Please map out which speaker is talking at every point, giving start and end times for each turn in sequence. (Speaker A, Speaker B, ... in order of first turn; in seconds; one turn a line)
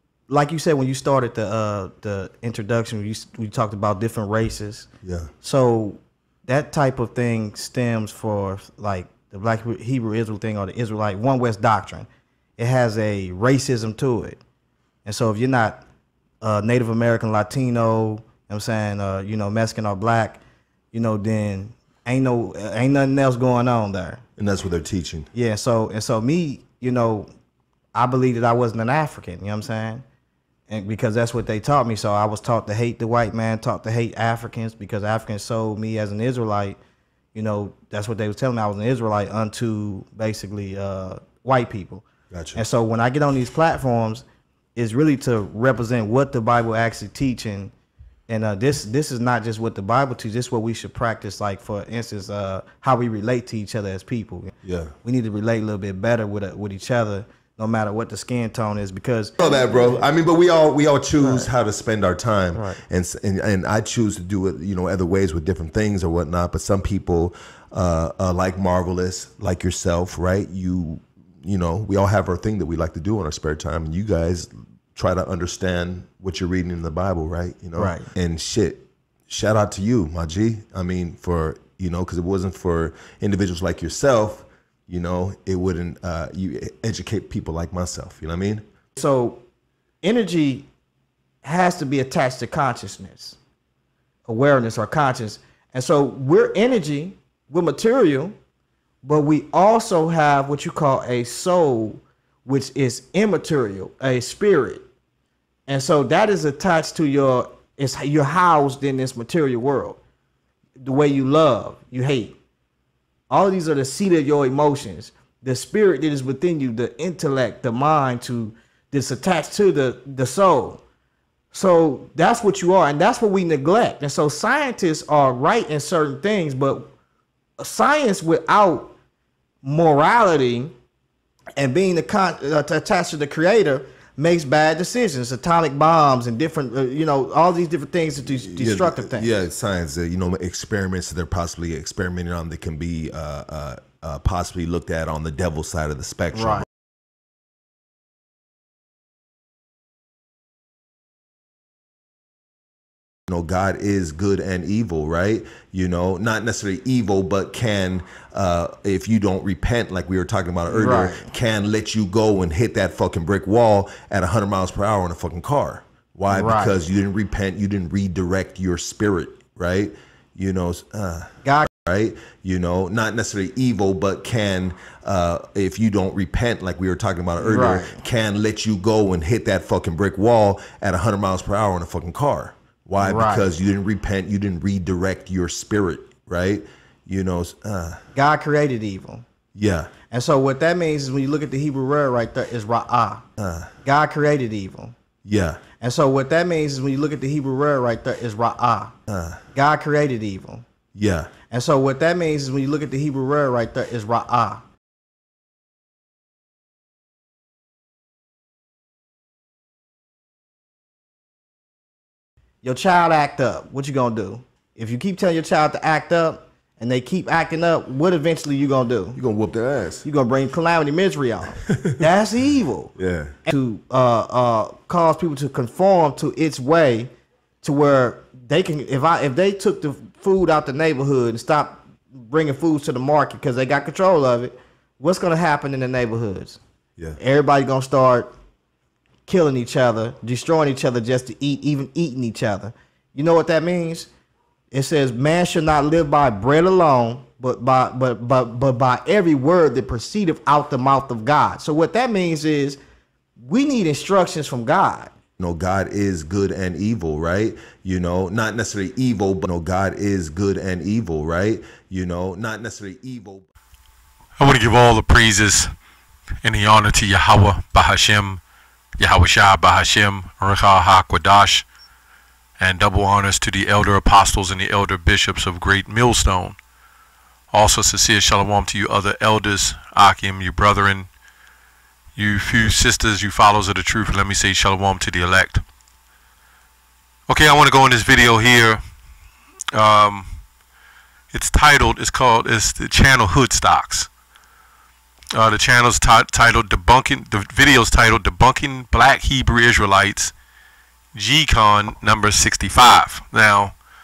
Speaker A: 0.3-4.9
Speaker B: 5.0-5.3
Speaker A: 5.4-14.4
Speaker A: 15.0-15.8
Speaker A: 16.4-20.4
Speaker A: 20.9-24.2
Speaker B: 24.4-25.3
Speaker A: 25.3-27.3
Speaker A: 27.9-30.0
Speaker A: 30.7-36.8
Speaker A: 37.3-47.7
Speaker B: 42.3-42.6
Speaker A: 48.3-60.0
Speaker B: 54.6-54.9
Speaker B: 59.4-88.6
Speaker A: 61.2-61.5
Speaker A: 62.5-62.8
Speaker A: 77.8-78.1
Speaker A: 89.0-89.4
Speaker A: 90.0-90.7
Speaker A: 91.4-93.4
Speaker A: 94.3-98.3
Speaker A: 99.0-104.8
Speaker A: 105.7-110.0
Speaker A: 110.8-112.4
Speaker A: 113.3-120.8
Speaker A: 121.5-126.9
Speaker A: 127.6-128.9
Speaker A: 129.6-130.7
Speaker A: 131.6-139.3
Speaker B: 138.3-146.6
Speaker A: 146.3-146.7
Speaker B: 153.3-188.0
Speaker A: 160.7-161.3
Speaker A: 166.3-166.8
Speaker A: 171.4-171.7
Speaker A: 177.4-178.0
Speaker A: 183.0-183.5
Speaker A: 188.1-189.2
Speaker B: 189.5-189.9
Speaker A: 190.1-193.2
Speaker B: 193.4-193.7
Speaker A: 193.8-194.9
Speaker B: 195.2-195.6
Speaker A: 195.8-198.9
Speaker B: 199.1-199.4
Speaker A: 199.5-200.7
Speaker B: 200.9-201.3
Speaker A: 201.5-204.6
Speaker A: 212.6-219.2
Speaker B: 219.1-220.1
Speaker A: 220.0-222.9
Speaker B: 222.9-223.3
Speaker A: 223.4-227.1
Speaker A: 227.6-236.6
Speaker A: 237.2-238.3
Speaker A: 239.2-244.1
Speaker A: 244.7-252.8
Speaker A: 253.4-255.1
Speaker B: 255.4-263.5
Speaker C: 264.4-265.7
Speaker C: 266.4-268.4
Speaker C: 269.0-271.6
Speaker C: 272.6-276.6
Speaker C: 277.5-281.1
Speaker C: 282.1-285.6
Speaker C: 287.3-288.8
Speaker C: 289.7-290.3
Speaker C: 291.3-294.1
Speaker C: 295.3-300.3
Speaker C: 301.1-303.7